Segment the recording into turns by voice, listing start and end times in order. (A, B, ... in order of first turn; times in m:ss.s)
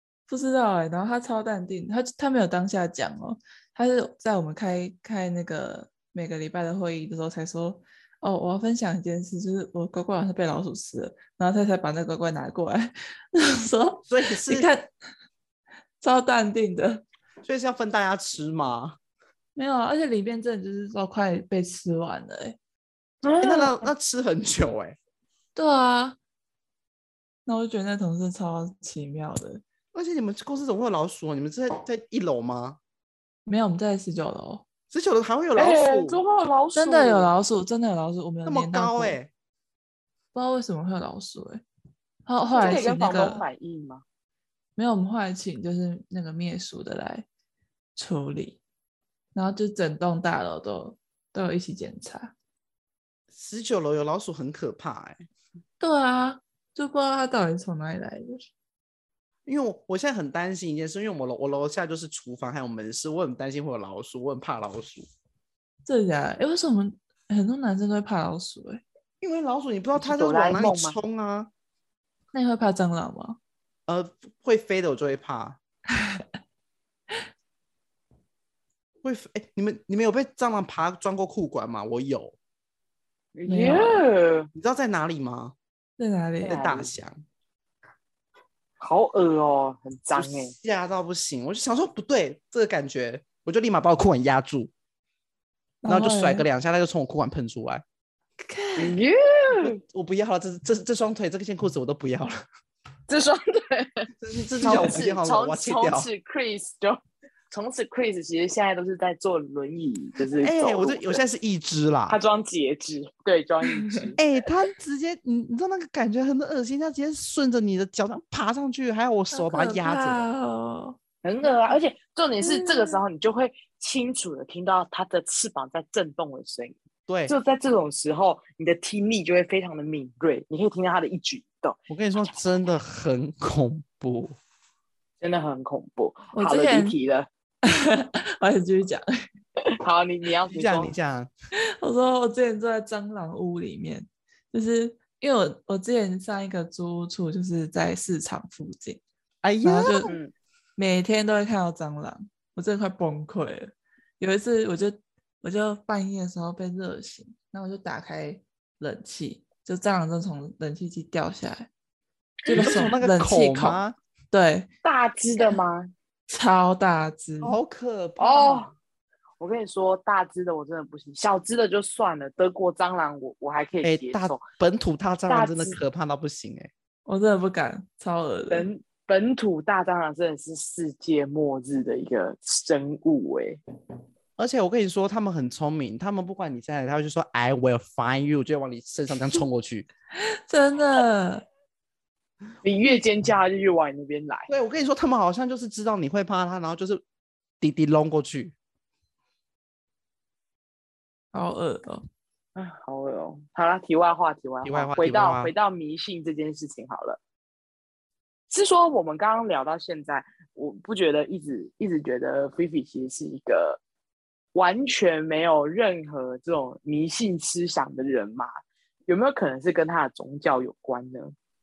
0:00.3-0:14.9 A
0:14.0-0:14.7 B
0:16.0-0:17.0 A
0:17.4-0:19.0 B
0:19.5-0:22.6 A
0:23.2-0:23.9 C
0:23.4-0:25.0 B
0:25.5-0:26.2 A
0:27.4-0:29.6 A
0:29.9-0:32.8 B
0:33.4-0:34.6 A
0:34.9-0:36.2 B
0:35.6-0:37.3 C
0:36.8-0:39.2 A
0:38.4-0:39.3 B
0:40.3-0:41.6 A
0:42.2-0:43.4 A
0:42.5-0:44.0 C
0:44.8-0:47.2 A
0:48.0-0:48.6 A
0:49.3-0:52.3 A
0:53.3-0:55.2 B
0:55.8-0:58.4 A
0:59.4-1:05.1 B
1:05.8-1:08.8 A
1:09.2-1:11.5 B
1:10.0-1:11.0 C
1:12.3-1:13.4 A
1:13.9-1:15.6 B
1:15.9-1:16.2 A
1:19.0-1:22.4 B
1:23.3-1:24.5 C
1:23.5-1:24.0 A
1:24.5-1:25.5 B
1:26.0-1:26.6 A
1:26.4-1:26.9 C
1:26.4-1:27.2 B
1:28.8-1:30.5 C
1:30.1-1:34.7 B
1:35.8-1:36.4 A
1:35.8-1:37.8 B
1:38.4-1:39.0 A
1:38.8-1:39.8 C
1:39.6-1:42.4 B
1:43.1-1:51.2 C
1:44.2-1:46.1 B
1:50.4-1:52.2 B
1:52.1-1:54.2 C
1:54.2-2:00.2 B
1:59.3-2:01.0 A
2:01.2-2:11.8 C
2:02.4-2:03.0 A
2:07.1-2:07.3 B
2:11.9-2:14.3 B
2:15.2-2:17.3 C
2:16.3-2:17.0 A
2:17.6-2:19.0 A
2:19.8-2:20.9 C
2:20.5-2:21.3 B
2:21.8-2:29.0 A
2:29.4-2:30.1 B
2:29.6-2:30.1 A
2:30.0-2:30.3 C
2:30.8-2:41.7 A
2:42.5-2:44.7 A
2:42.5-2:42.8 C
2:42.6-2:43.9 B
2:44.8-2:45.9 C
2:46.3-2:47.6 A
2:47.4-2:48.7 B
2:48.2-2:48.7 C
2:49.4-2:54.4 C
2:53.8-2:56.7 B
2:55.3-2:55.8 C
2:57.0-2:58.7 A
2:58.5-3:03.6 C
3:04.4-3:09.9 B
3:10.3-3:11.4 A
3:12.6-3:14.5 C
3:14.5-3:17.0 B
3:17.6-3:18.6 B
3:21.3-3:22.0 A
3:22.6-3:27.2 C
3:24.6-3:25.5 B
3:28.5-3:33.8 C
3:34.5-3:38.5 C
3:39.1-3:41.3 C